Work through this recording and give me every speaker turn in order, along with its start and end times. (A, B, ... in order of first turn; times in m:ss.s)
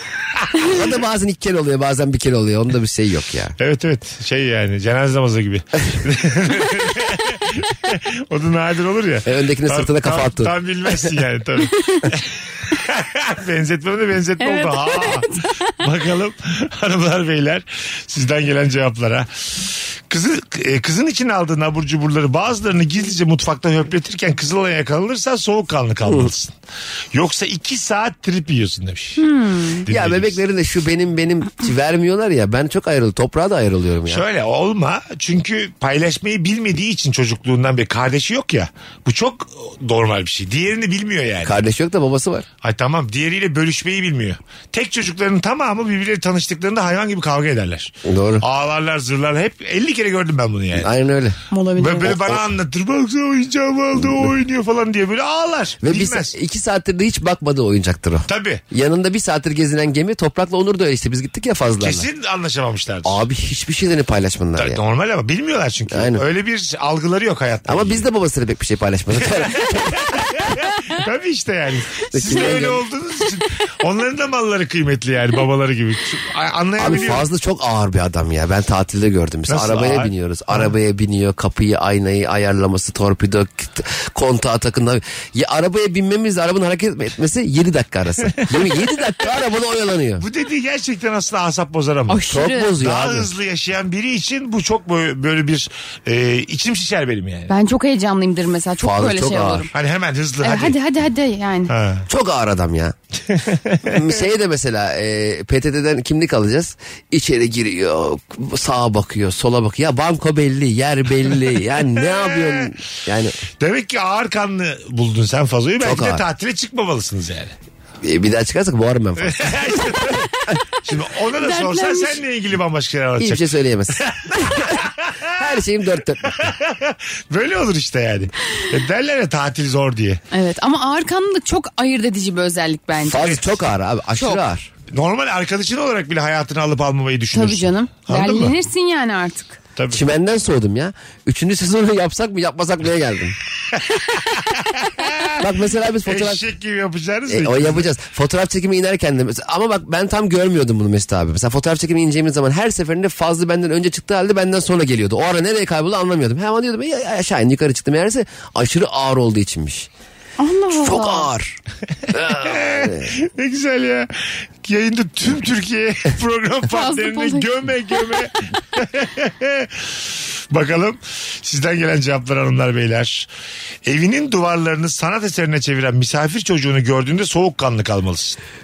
0:00.3-0:00.9 A
0:00.6-0:03.6 B
0:03.6-0:26.5 A
0:09.2-0:10.5 B
0:14.4-0:15.8 C
0:27.1-0:29.2 A
0:29.2-0:29.9 C
0:29.9-0:30.4 A
0:29.9-0:34.2 B
0:34.1-0:41.6 A
0:41.4-0:42.5 B
0:42.6-0:50.9 A
0:48.0-0:48.4 B
0:50.8-0:51.4 B
0:51.5-0:52.1 C
0:51.8-0:56.4 A
0:52.0-0:52.4 B
0:54.0-0:54.3 B
0:55.8-1:02.1 B
0:58.3-0:58.6 A
1:01.8-1:03.2 A
1:03.0-1:04.8 B
1:04.6-1:08.1 A
1:05.9-1:06.2 B
1:07.7-1:10.3 B
1:09.2-1:17.3 A
1:12.1-1:12.8 B
1:16.8-1:30.3 B
1:19.5-1:20.7 A
1:28.4-1:28.8 A
1:30.2-1:32.2 A
1:32.1-1:32.7 C
1:32.3-1:33.3 B
1:32.8-1:37.5 A
1:37.5-1:39.7 C
1:38.8-1:39.7 B
1:39.7-1:40.8 A
1:40.4-1:41.7 C
1:41.7-1:42.1 A
1:42.1-1:43.0 B
1:43.3-1:44.0 A
1:43.8-1:53.4 B
1:52.0-1:52.7 A
1:53.6-1:57.5 A
1:55.8-1:56.2 B
1:58.0-2:00.0 B
1:59.2-2:05.6 A
2:01.4-2:02.2 C
2:03.2-2:04.8 B
2:05.4-2:06.5 B
2:06.3-2:10.2 A
2:10.3-2:13.4 C
2:13.0-2:14.7 B
2:14.9-2:18.6 A
2:17.3-2:19.6 C
2:19.8-2:20.0 A
2:19.9-2:23.4 B
2:23.7-2:25.4 A
2:25.4-2:26.4 B
2:26.0-2:27.9 A
2:27.3-2:39.9 B
2:40.4-2:41.3 C
2:40.8-2:41.6 B
2:42.1-2:43.1 B
2:42.2-2:53.3 A
2:46.7-2:47.5 C
2:53.8-2:58.4 A